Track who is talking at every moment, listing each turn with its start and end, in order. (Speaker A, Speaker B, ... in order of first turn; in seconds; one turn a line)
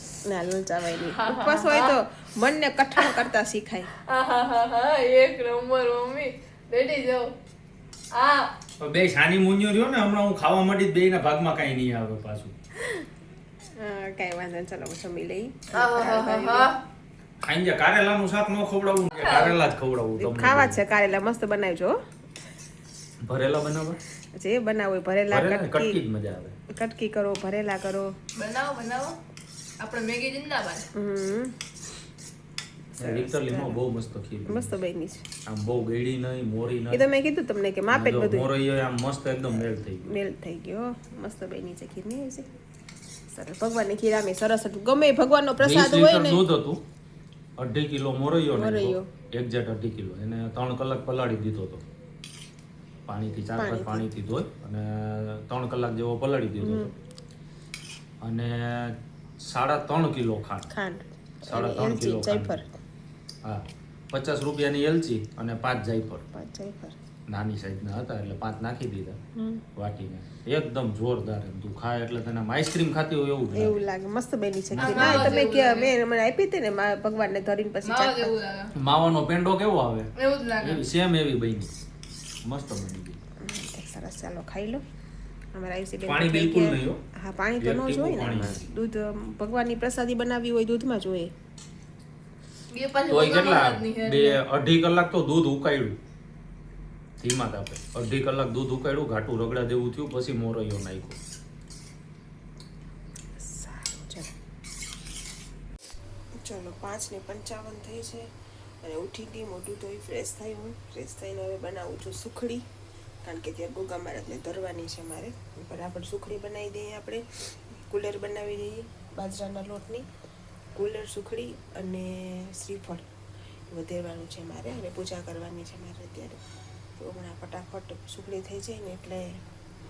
Speaker A: 0.2-3.9
Speaker B: 1.1-1.9
Speaker B: 4.1-7.3
Speaker B: 8.1-8.5
Speaker C: 8.8-12.5
Speaker A: 13.8-16.7
Speaker B: 15.7-16.8
Speaker C: 17.4-20.8
Speaker B: 19.1-19.6
Speaker A: 20.2-22.0
Speaker C: 23.2-24.0
Speaker A: 24.4-26.0
Speaker C: 25.3-26.6
Speaker A: 26.7-28.1
Speaker B: 28.4-29.2
Speaker B: 29.8-30.9
Speaker A: 30.9-31.6
Speaker A: 32.9-33.8
Speaker C: 33.0-34.8
Speaker A: 34.5-35.3
Speaker C: 35.5-37.0
Speaker A: 36.9-38.5
Speaker C: 37.9-40.1
Speaker A: 39.5-42.5
Speaker A: 43.3-46.4
Speaker C: 45.6-46.8
Speaker C: 47.6-51.8
Speaker A: 48.5-49.1
Speaker C: 53.1-56.9
Speaker A: 53.5-54.1
Speaker A: 56.6-56.9
Speaker C: 58.2-60.7
Speaker A: 60.7-62.7
Speaker C: 61.5-62.6
Speaker C: 63.5-66.2
Speaker A: 66.3-67.0
Speaker C: 67.3-69.2
Speaker A: 69.4-69.6
Speaker C: 69.8-73.8
Speaker A: 73.5-78.3
Speaker C: 74.7-75.4
Speaker B: 74.8-75.9
Speaker B: 77.8-78.7
Speaker C: 78.8-80.1
Speaker B: 80.2-80.8
Speaker C: 80.6-81.7
Speaker C: 82.5-83.2
Speaker A: 83.4-84.8
Speaker A: 85.5-91.3
Speaker C: 86.0-87.0
Speaker C: 87.6-88.7
Speaker B: 92.7-94.4
Speaker C: 93.1-96.0
Speaker C: 97.2-101.2
Speaker A: 103.4-104.3
Speaker A: 106.4-108.3
Speaker A: 108.8-112.6
Speaker A: 113.2-117.2
Speaker A: 117.9-120.1
Speaker A: 120.8-123.0
Speaker A: 123.7-126.4
Speaker A: 127.0-129.4